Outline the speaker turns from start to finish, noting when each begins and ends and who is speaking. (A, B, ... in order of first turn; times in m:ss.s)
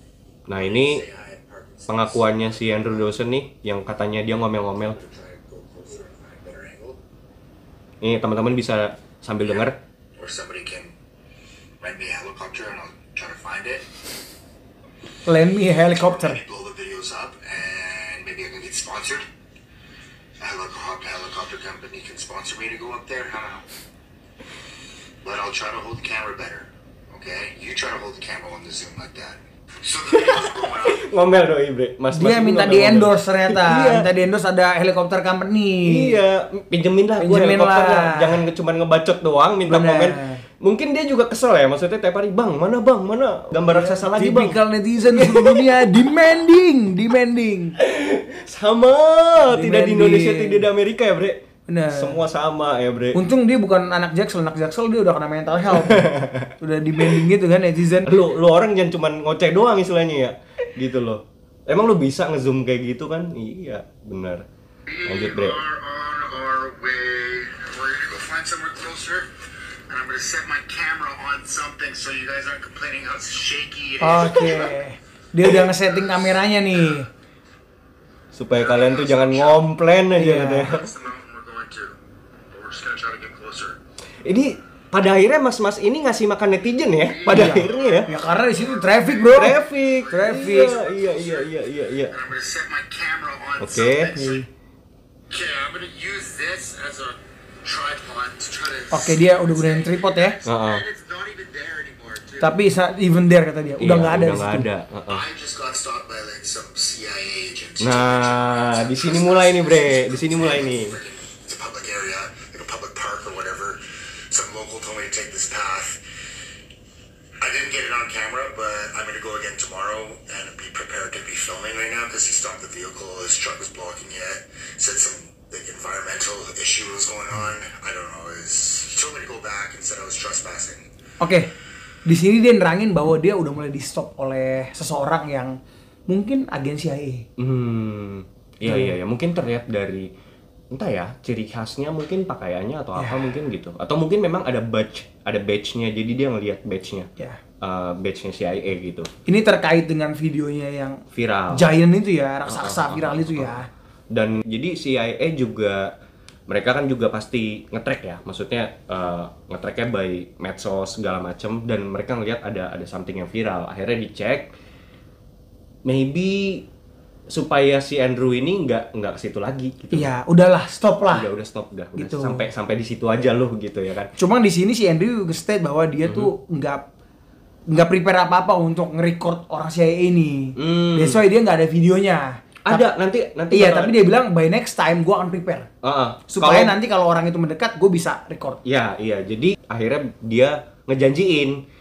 0:00.5-0:01.0 A
0:00.6-0:03.1 B
0:01.9-0:05.0 A
0:04.8-0:07.0 B
0:08.0-0:09.8 A
0:10.2-0:10.9 B
0:11.8-0:13.9 B
0:15.3-0:16.4 C
0:15.9-0:19.2 B
0:20.4-0:23.6 B
0:25.2-0:31.1 B
0:30.1-0:34.1 A
0:32.1-0:36.2 C
0:35.8-0:46.1 A
0:37.2-0:38.4 C
0:39.7-0:40.4 C
0:43.7-0:47.8 C
0:47.8-0:53.2 A
0:49.4-0:50.7 C
0:51.7-0:52.2 C
0:53.1-0:58.1 C
0:55.7-0:57.2 A
0:58.0-1:04.4 A
1:04.9-1:09.3 B
1:05.0-1:05.6 A
1:09.9-1:14.8 B
1:14.0-1:17.1 C
1:18.3-1:20.9 A
1:18.6-1:19.7 B
1:20.1-1:20.8 C
1:20.7-1:22.0 B
1:22.5-1:23.8 B
1:24.2-1:28.1 A
1:27.1-1:31.5 B
1:27.3-1:30.8 C
1:29.3-1:32.2 A
1:32.1-1:34.4 B
1:33.6-1:34.2 A
1:34.0-1:34.5 C
1:35.3-1:42.6 B
1:38.9-1:40.4 C
1:40.4-1:40.8 A
1:42.4-1:44.7 C
1:43.8-1:45.3 A
1:45.1-1:56.0 B
1:47.8-1:51.0 A
1:57.4-2:10.9 B
2:11.2-2:11.5 C
2:12.1-2:17.3 C
2:17.4-2:20.1 A
2:18.6-2:18.9 C
2:20.7-2:27.1 A
2:23.0-2:23.2 C
2:27.6-2:29.1 A
2:29.3-2:33.7 C
2:31.1-2:31.7 A
2:32.4-2:33.6 A
2:34.1-2:36.0 A
2:36.5-2:44.5 A
2:45.8-2:46.7 A
2:47.3-2:50.1 A
2:49.9-2:51.3 C
2:51.1-2:54.1 A
2:52.0-2:52.5 C
2:54.2-2:56.9 C
2:57.7-3:02.9 C
3:00.6-3:01.2 A
3:02.6-3:04.0 A
3:03.5-3:05.7 C
3:05.8-3:06.8 A
3:06.3-3:08.6 C
3:08.6-3:11.6 A